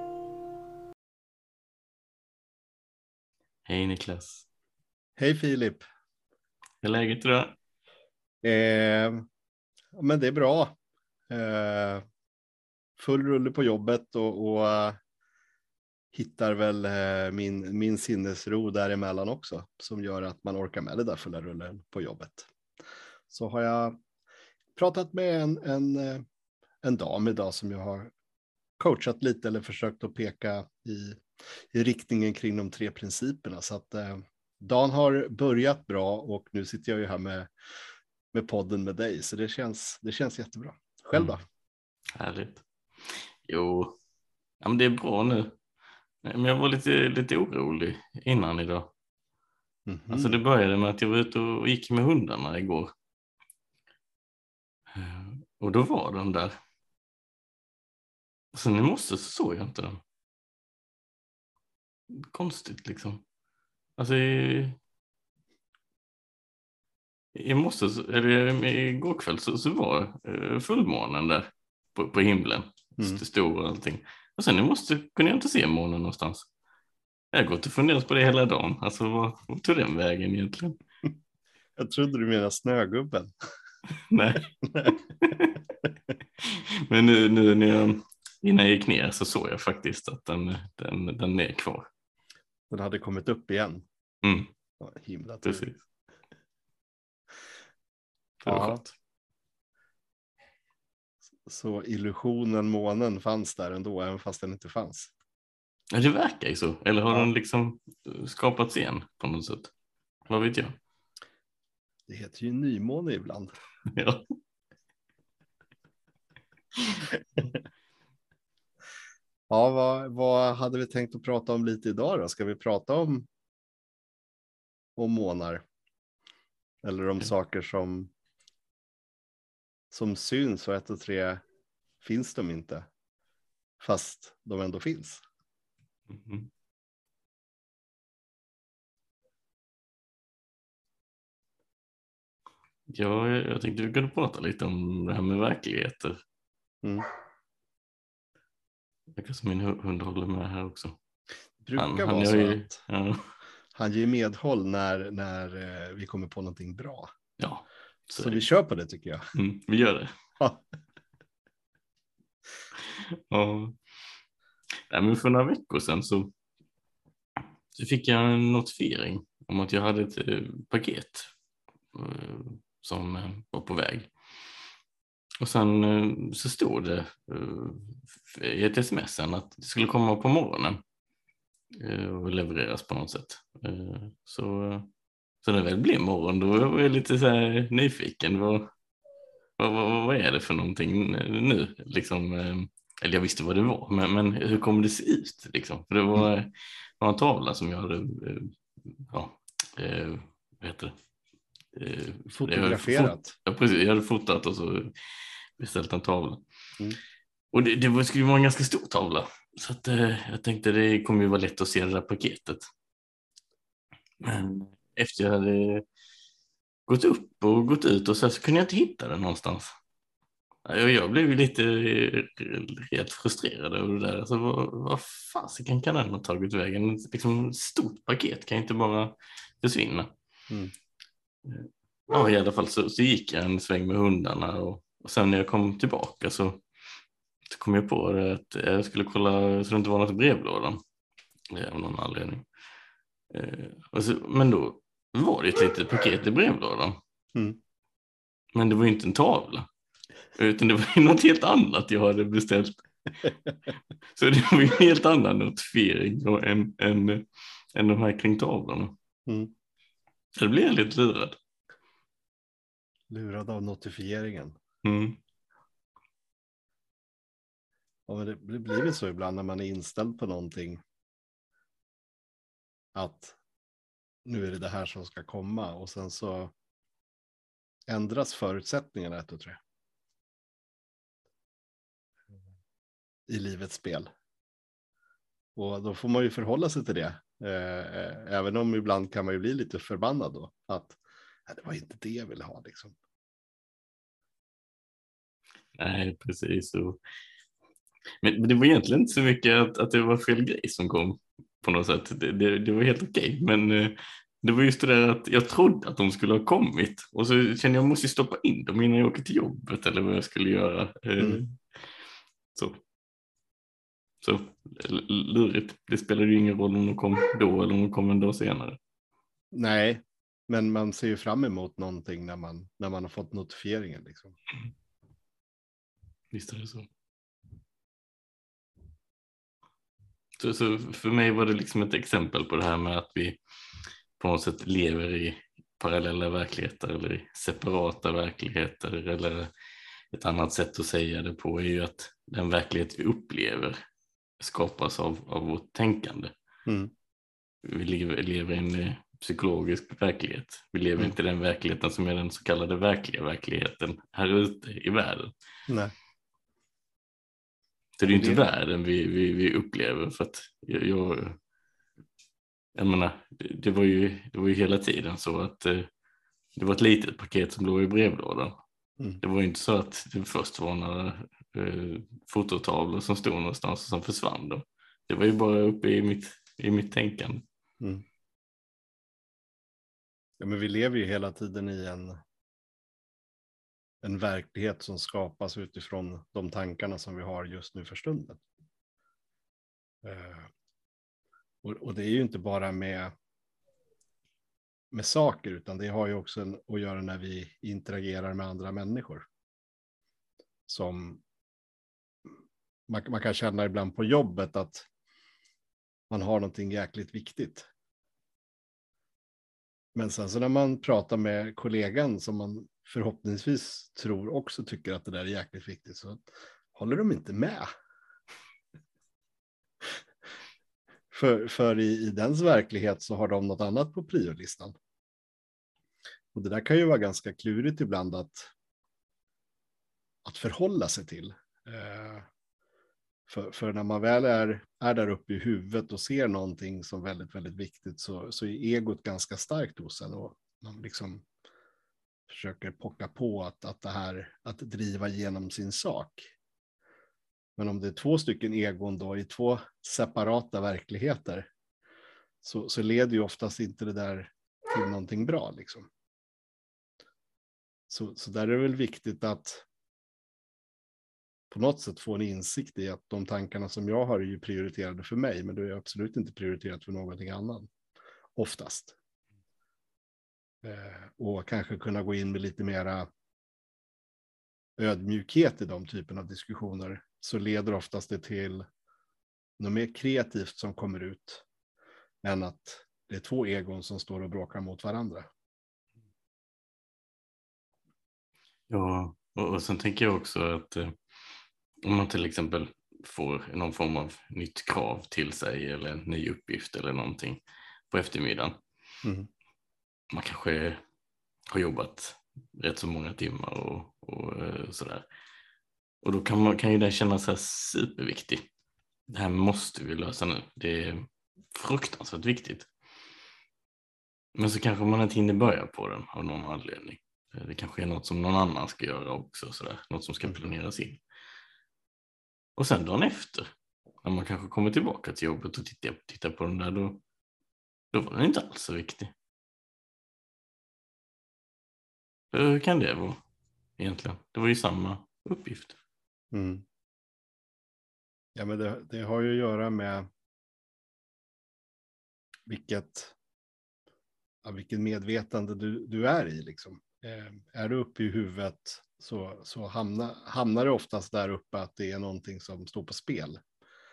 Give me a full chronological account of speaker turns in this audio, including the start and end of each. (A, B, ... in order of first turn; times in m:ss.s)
0:03.6-0:04.4 A
0:05.2-0:05.8 B
0:06.8-0:07.6 A
0:08.4-0:09.2 B
0:09.9-0:10.8 B
0:11.3-0:12.0 B
0:13.0-0:15.0 B
0:16.1-0:22.5 B
0:23.3-0:24.0 B
0:24.8-0:26.2 B
0:26.8-0:28.1 B
0:28.8-0:37.5 B
0:38.3-0:41.4 B
0:42.2-0:44.0 A
0:44.6-0:45.5 A
0:46.2-0:48.9 A
0:49.9-0:50.4 B
0:50.1-0:52.9 A
0:54.9-0:56.6 A
0:58.5-1:00.0 A
1:02.1-1:03.2 A
1:04.0-1:04.8 A
1:07.3-1:16.5 A
1:17.3-1:20.8 A
1:21.8-1:23.3 B
1:24.1-1:25.6 A
1:24.6-1:25.0 B
1:26.4-1:31.9 A
1:32.7-1:33.8 B
1:34.2-1:34.5 A
1:34.8-1:35.7 B
1:35.4-1:35.8 A
1:38.4-1:38.9 A
1:38.4-1:38.8 B
1:41.4-1:45.1 B
1:45.9-1:49.7 A
1:50.3-1:50.8 A
1:52.1-1:53.5 B
1:53.9-1:54.2 A
1:59.5-2:03.3 B
2:05.0-2:05.6 B
2:06.8-2:08.1 B
2:09.9-2:11.4 B
2:12.0-2:12.9 B
2:13.8-2:15.2 B
2:16.1-2:16.5 A
2:22.9-2:26.2 A
2:29.2-2:31.0 A
2:31.6-2:32.8 B
2:31.8-2:33.3 A
2:33.7-2:37.1 B
2:37.4-2:38.4 A
2:38.2-2:39.2 B
2:39.3-2:40.1 A
2:42.8-2:43.8 A
2:44.9-2:46.3 A
2:47.7-2:51.3 A
2:51.9-2:54.1 A
2:55.4-3:00.8 A
3:01.7-3:04.9 A
3:05.4-3:08.7 A
3:09.6-3:20.9 A
3:21.7-3:24.9 A
3:22.3-3:23.3 B
3:25.6-3:26.4 A
3:27.5-3:32.6 A
3:34.2-3:35.8 A
3:36.9-3:39.7 A
3:40.6-3:50.1 A
3:51.4-3:56.6 A
3:57.5-4:00.8 A
4:01.5-4:02.4 A
4:03.3-4:07.0 A
4:08.5-4:09.7 A
4:10.3-4:12.8 A
4:14.1-4:19.0 A
4:19.2-4:19.5 B
4:20.4-4:21.4 A
4:23.1-4:24.6 B
4:24.8-4:25.2 A
4:28.1-4:30.8 B
4:32.9-4:33.4 B
4:34.2-4:36.5 B
4:37.9-4:39.6 B
4:43.3-4:44.1 B
4:45.5-4:52.9 B
4:55.8-4:57.0 A
4:58.2-5:11.6 A
5:14.2-5:18.8 A
5:19.5-5:24.4 B
5:26.3-5:26.9 A
5:30.4-5:33.4 A
5:34.2-5:39.5 A
5:40.1-5:43.8 A
5:44.4-5:46.3 A
5:46.6-5:46.9 B
5:47.6-5:55.3 A
5:58.0-6:01.4 A
5:58.1-5:58.4 B
6:02.7-6:05.9 A
6:06.6-6:08.6 A
6:09.2-6:17.4 A
6:20.4-6:22.2 B
6:24.0-6:28.4 B
6:30.0-6:30.5 B
6:31.6-6:33.1 B
6:34.9-6:39.2 B
6:40.7-6:41.2 B
6:42.9-6:44.9 B
6:46.1-6:47.7 B
6:49.9-6:57.7 B
7:01.1-7:04.7 B
7:06.3-7:08.5 B
7:10.2-7:12.3 B
7:13.3-7:21.2 B
7:22.3-7:26.3 B
7:27.6-7:31.5 B
7:32.4-7:35.9 B
7:37.9-7:39.6 B
7:41.5-7:47.7 B
7:48.3-7:49.0 B
7:50.6-7:53.1 B
7:54.8-7:58.6 B
7:59.6-8:01.4 B
8:02.2-8:05.3 B
8:08.7-8:11.0 A
8:11.8-8:18.6 A
8:20.1-8:20.8 A
8:21.5-8:25.0 A
8:26.0-8:28.4 A
8:29.1-8:32.7 A
8:34.3-8:41.0 A
8:42.6-8:43.5 A
8:44.0-8:47.0 A
8:47.9-8:49.1 A
8:52.3-8:53.2 A
8:53.8-8:55.8 A
8:56.3-8:56.6 B
8:58.3-9:00.1 B
9:02.5-9:03.1 B
9:04.4-9:13.4 B